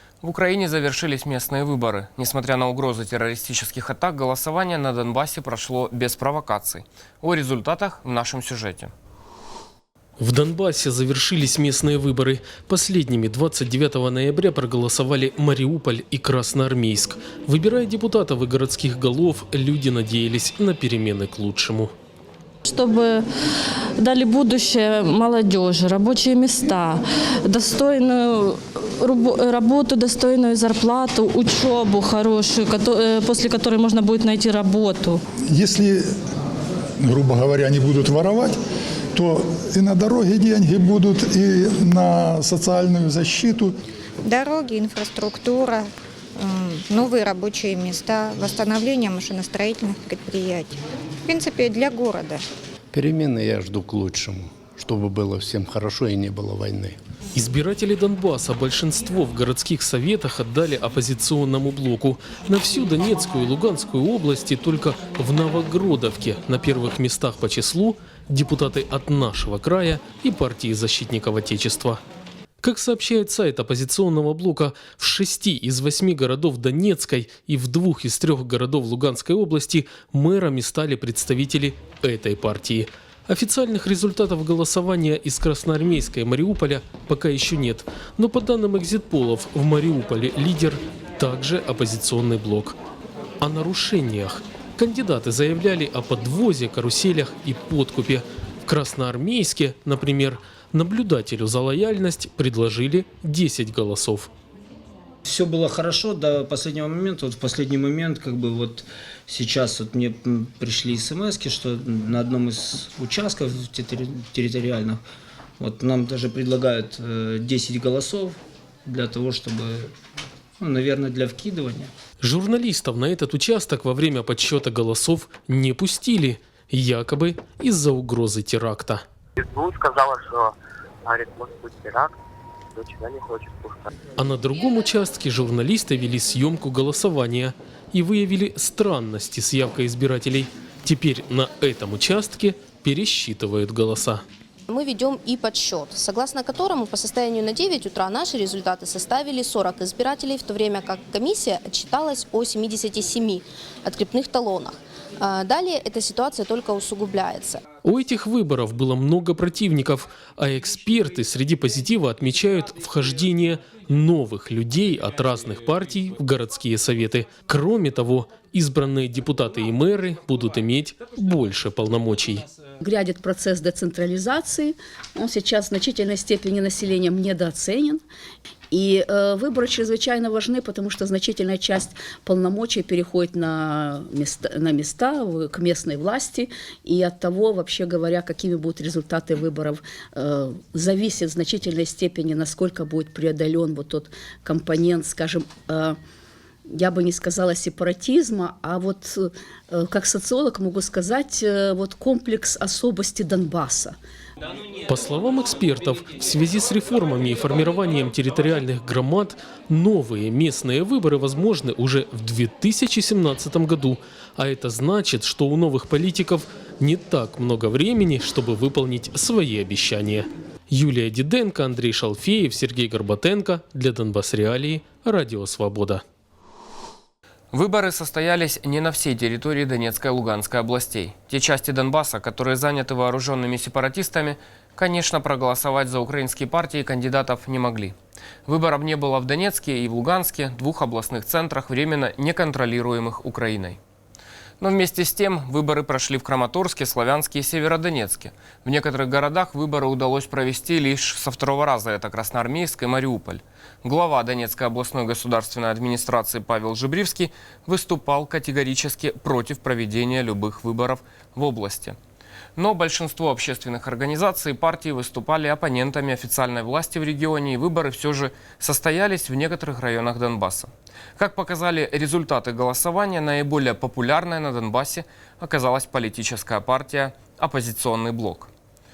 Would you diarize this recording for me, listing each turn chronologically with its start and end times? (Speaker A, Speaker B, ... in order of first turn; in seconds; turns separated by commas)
Speaker A: 0.2-8.9, Speaker B: 10.2-21.9, Speaker C: 22.6-23.2, Speaker C: 23.9-35.2, Speaker D: 35.5-36.0, Speaker D: 37.0-38.6, Speaker D: 39.1-43.7, Speaker E: 44.2-52.4, Speaker F: 52.9-57.0, Speaker B: 57.3-72.0, Speaker B: 72.6-92.8, Speaker B: 93.4-104.3, Speaker G: 105.2-115.0, Speaker G: 115.6-119.9, Speaker G: 120.6-121.9, Speaker B: 122.2-129.0, Speaker H: 129.4-130.5, Speaker H: 131.0-132.1, Speaker H: 132.8-133.9, Speaker B: 134.2-144.2, Speaker I: 144.7-157.6, Speaker B: 157.8-172.5, Speaker J: 172.8-178.0, Speaker J: 178.7-196.0, Speaker J: 196.7-204.0, Speaker B: 204.9-226.0, Speaker A: 227.5-237.9, Speaker A: 238.4-243.8, Speaker A: 244.6-261.9, Speaker A: 262.6-278.5